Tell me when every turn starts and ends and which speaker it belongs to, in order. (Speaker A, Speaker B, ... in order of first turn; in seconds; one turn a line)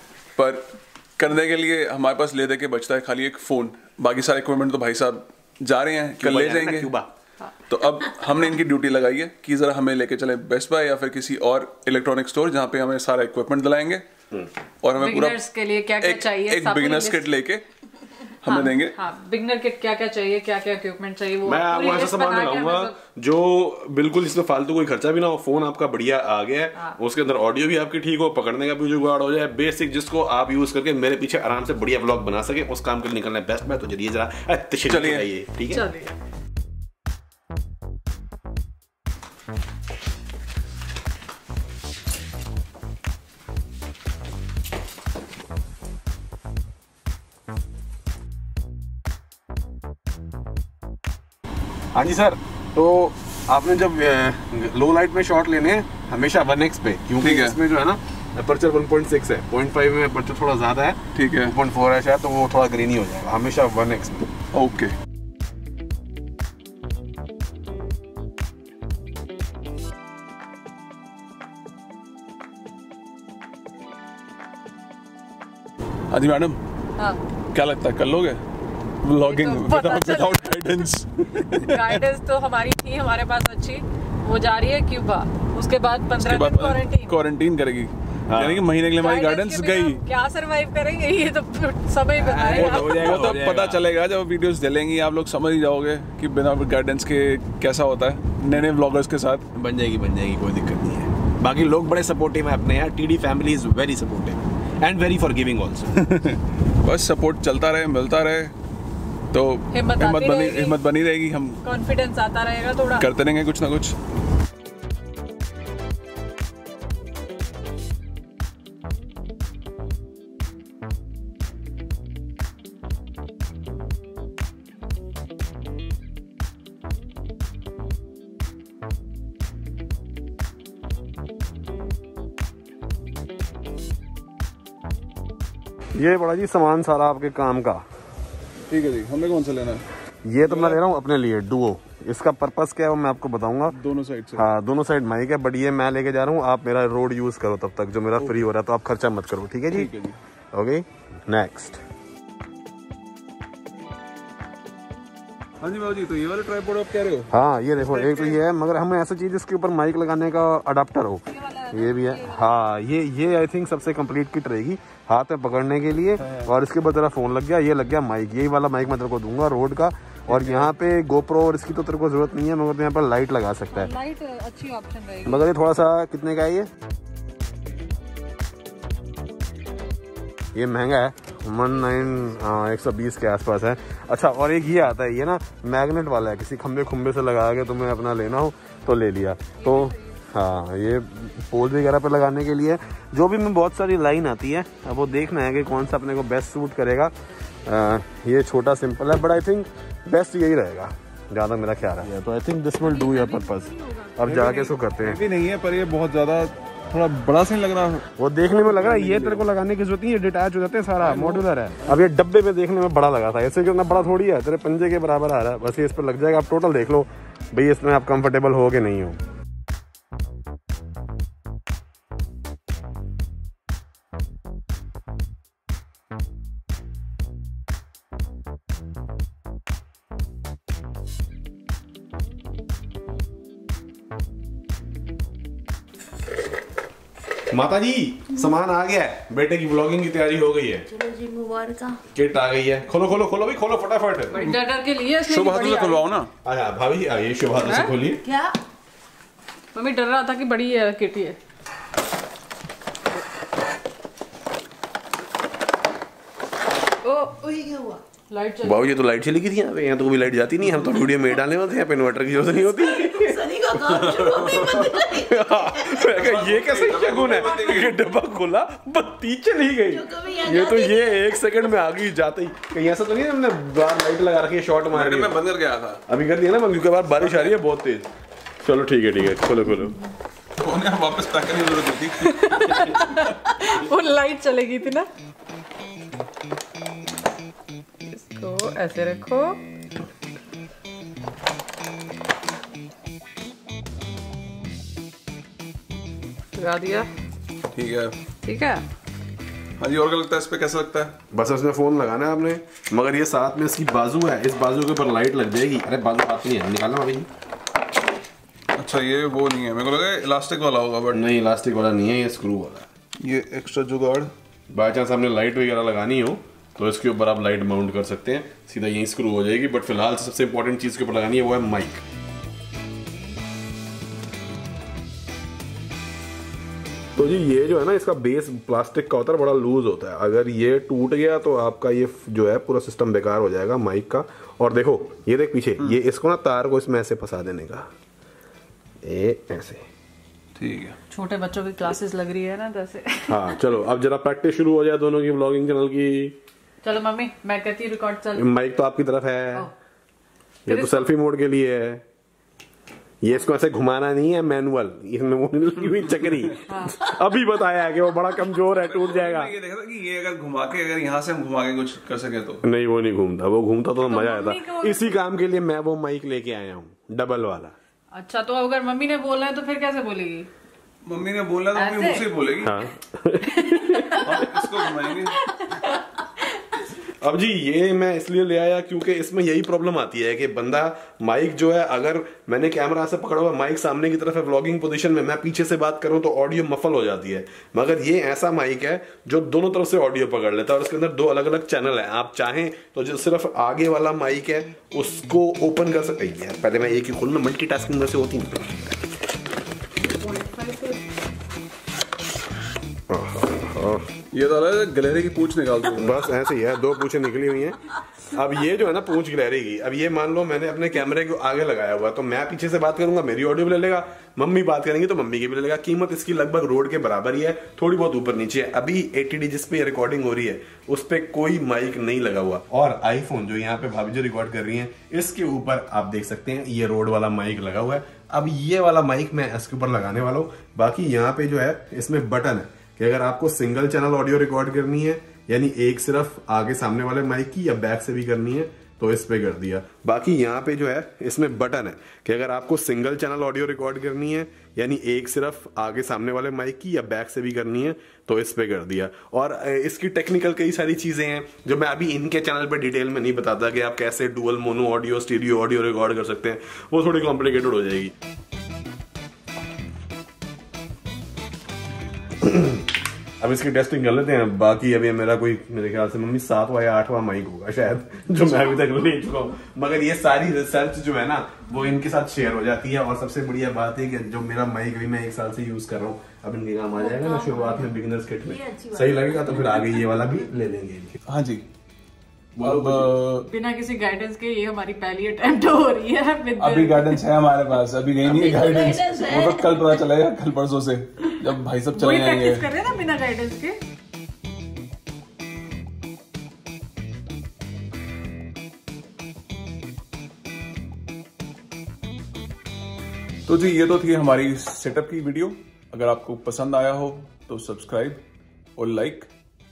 Speaker A: 0.4-6.9
Speaker B: 6.2-7.1
Speaker A: 7.7-14.1
Speaker A: 14.8-15.4
Speaker C: 14.9-17.3
Speaker A: 16.0-17.6
Speaker A: 18.4-19.0
Speaker C: 18.5-22.9
Speaker B: 21.4-35.9
Speaker A: 34.9-35.3
Speaker C: 35.7-36.1
Speaker B: 51.9-64.3
Speaker A: 57.2-57.6
Speaker A: 61.1-61.5
Speaker A: 64.5-64.9
Speaker A: 76.1-76.6
Speaker A: 77.5-78.4
Speaker A: 79.0-82.0
Speaker C: 79.2-80.7
Speaker C: 81.5-87.1
Speaker A: 86.2-90.0
Speaker B: 88.3-88.7
Speaker C: 88.9-93.2
Speaker B: 92.2-93.8
Speaker A: 92.5-99.5
Speaker B: 99.5-106.0
Speaker A: 106.0-108.5
Speaker A: 109.3-111.6
Speaker C: 109.7-110.8
Speaker C: 111.6-113.1
Speaker A: 113.0-114.0
Speaker B: 136.0-137.8
Speaker A: 138.7-139.8
Speaker B: 140.2-143.8
Speaker A: 140.4-140.8
Speaker A: 143.7-144.5
Speaker B: 144.3-149.9
Speaker A: 149.7-150.2
Speaker B: 150.5-151.8
Speaker A: 155.6-157.3
Speaker B: 157.3-173.9
Speaker A: 157.8-158.4
Speaker C: 161.3-162.5
Speaker A: 166.2-166.5
Speaker A: 170.3-170.7
Speaker C: 173.7-175.4
Speaker B: 175.2-176.7
Speaker B: 180.6-197.1
Speaker B: 197.7-205.2
Speaker C: 202.8-204.1
Speaker A: 204.2-208.1
Speaker B: 208.2-219.2
Speaker A: 208.7-209.4
Speaker A: 211.0-211.4
Speaker B: 237.5-240.9
Speaker D: 240.9-242.0
Speaker B: 242.1-244.4
Speaker C: 244.3-246.0
Speaker A: 245.2-246.3
Speaker B: 246.4-248.2
Speaker C: 247.6-247.9
Speaker D: 248.3-248.6
Speaker C: 249.8-251.4
Speaker C: 257.1-257.8
Speaker D: 257.3-258.0
Speaker C: 258.3-258.9
Speaker B: 258.6-275.4
Speaker D: 262.9-265.4
Speaker A: 266.0-268.0
Speaker D: 269.9-271.3
Speaker A: 274.9-276.0
Speaker B: 276.1-278.1
Speaker A: 277.2-277.5
Speaker B: 278.6-280.0
Speaker A: 280.6-282.9
Speaker C: 282.2-285.1
Speaker C: 288.1-289.6
Speaker C: 296.6-297.1
Speaker A: 297.7-298.2
Speaker C: 298.4-298.8
Speaker A: 299.8-301.1
Speaker B: 301.3-307.3
Speaker A: 308.8-311.2
Speaker B: 311.1-312.9
Speaker A: 313.2-314.3
Speaker B: 314.7-322.0
Speaker B: 327.1-337.9
Speaker B: 339.0-339.9
Speaker A: 340.6-341.0
Speaker C: 341.1-343.6
Speaker B: 343.3-346.4
Speaker C: 346.8-348.5
Speaker B: 348.4-349.7
Speaker C: 350.7-351.1
Speaker B: 350.7-352.0
Speaker B: 353.2-359.5
Speaker C: 356.7-357.0
Speaker A: 358.8-362.6
Speaker B: 362.6-367.8
Speaker C: 364.0-365.1
Speaker C: 368.1-370.5
Speaker A: 371.1-372.8
Speaker C: 371.7-372.3
Speaker B: 372.6-374.3
Speaker C: 373.5-376.8
Speaker A: 374.1-375.4
Speaker B: 377.0-399.0
Speaker C: 400.1-401.0
Speaker B: 403.1-404.1
Speaker A: 404.3-406.2
Speaker B: 405.9-458.1
Speaker B: 462.4-481.2
Speaker D: 477.0-479.9
Speaker A: 481.3-481.7
Speaker B: 482.6-483.1
Speaker A: 482.6-483.5
Speaker C: 483.5-487.2
Speaker A: 486.6-492.7
Speaker D: 488.2-489.7
Speaker C: 491.9-493.8
Speaker A: 503.5-508.2
Speaker A: 508.8-509.3